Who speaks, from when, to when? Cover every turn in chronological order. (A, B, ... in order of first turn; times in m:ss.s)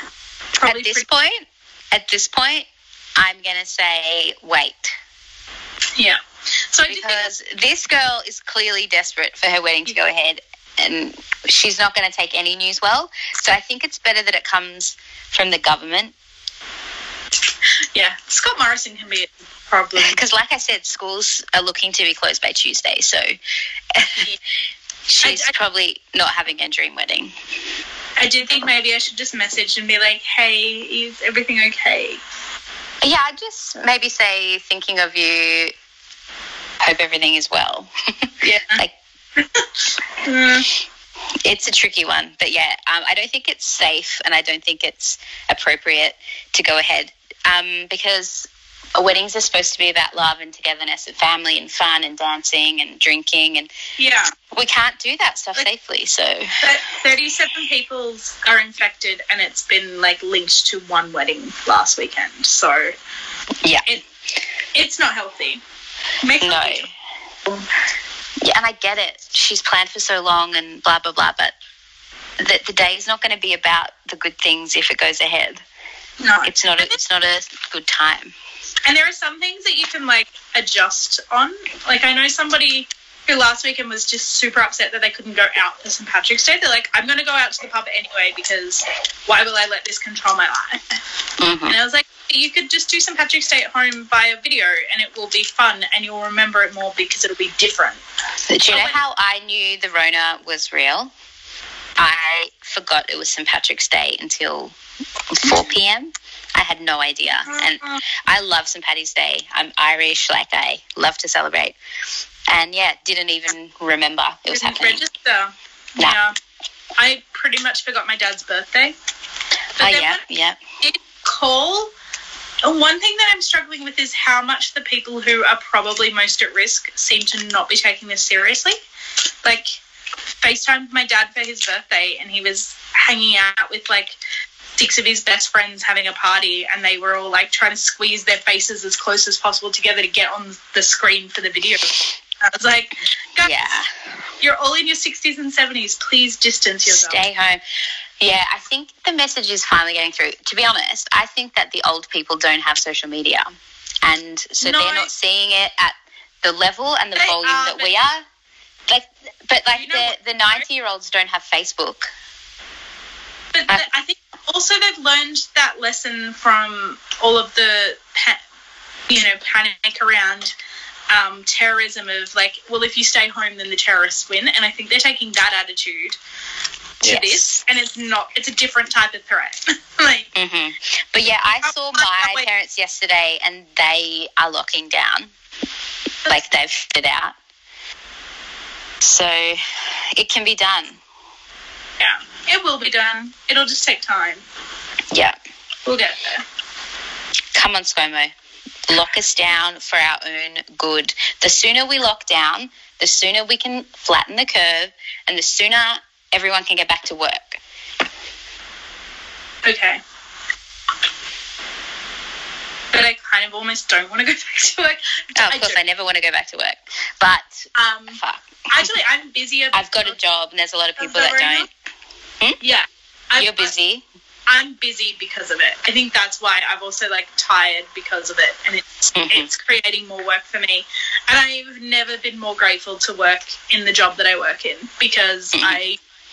0:00.6-0:01.0 A
0:00.6-0:05.0 B
0:06.7-0:07.3 A
0:06.9-0:16.1 B
0:17.9-0:20.2 A
0:20.0-0:23.3 B
0:23.9-0:24.3 B
0:25.1-0:27.3 B
0:25.2-0:25.5 A
0:28.2-0:32.2 A
0:33.0-0:35.7 B
0:36.8-0:38.9 B
0:38.4-0:38.8 A
0:39.4-0:39.7 A
0:40.2-0:40.7 A
0:41.4-0:53.7 B
0:54.0-0:54.3 A
0:54.5-0:56.6 B
0:56.6-1:02.9 A
1:04.7-1:05.6 A
1:06.2-1:06.8 A
1:06.4-1:06.9 B
1:08.4-1:11.5 B
1:12.4-1:15.6 B
1:16.2-1:17.0 A
1:16.4-1:18.3 B
1:18.8-1:31.0 A
1:31.4-1:31.8 B
1:31.7-1:38.0 A
1:38.5-1:41.1 B
1:38.7-1:39.0 A
1:42.0-1:44.7 B
1:45.3-1:51.8 B
1:47.5-1:48.0 A
1:52.5-1:55.0 B
1:54.5-1:56.4 A
1:57.0-1:58.9 A
1:59.8-2:00.2 A
1:59.8-2:00.6 B
2:00.8-2:01.9 A
2:02.6-2:08.8 A
2:09.4-2:09.8 A
2:10.4-2:14.2 A
2:14.8-2:23.8 A
2:23.4-2:23.9 B
2:24.4-2:27.2 A
2:26.8-2:27.6 B
2:28.2-2:33.5 B
2:34.0-2:38.2 B
2:34.6-2:35.1 A
2:37.2-2:37.9 A
2:38.9-2:42.1 B
2:39.7-2:40.6 A
2:43.5-2:48.4 A
2:49.1-2:50.5 A
2:51.1-2:56.2 A
2:57.0-3:00.3 A
2:57.0-2:57.6 B
3:00.3-3:05.3 B
3:01.6-3:02.4 A
3:06.2-3:07.4 B
3:09.0-3:11.0 B
3:12.0-3:14.4 A
3:15.8-3:16.4 A
3:17.5-3:18.3 B
3:18.9-3:27.6 B
3:29.6-3:30.0 A
3:32.9-3:35.8 A
3:35.4-3:38.9 B
3:37.7-3:40.2 A
3:39.7-3:41.7 B
3:41.0-3:41.7 A
3:42.6-3:43.7 A
3:43.4-3:44.0 B
3:44.5-3:56.0 A
3:49.1-3:49.5 B
3:55.5-3:55.8 B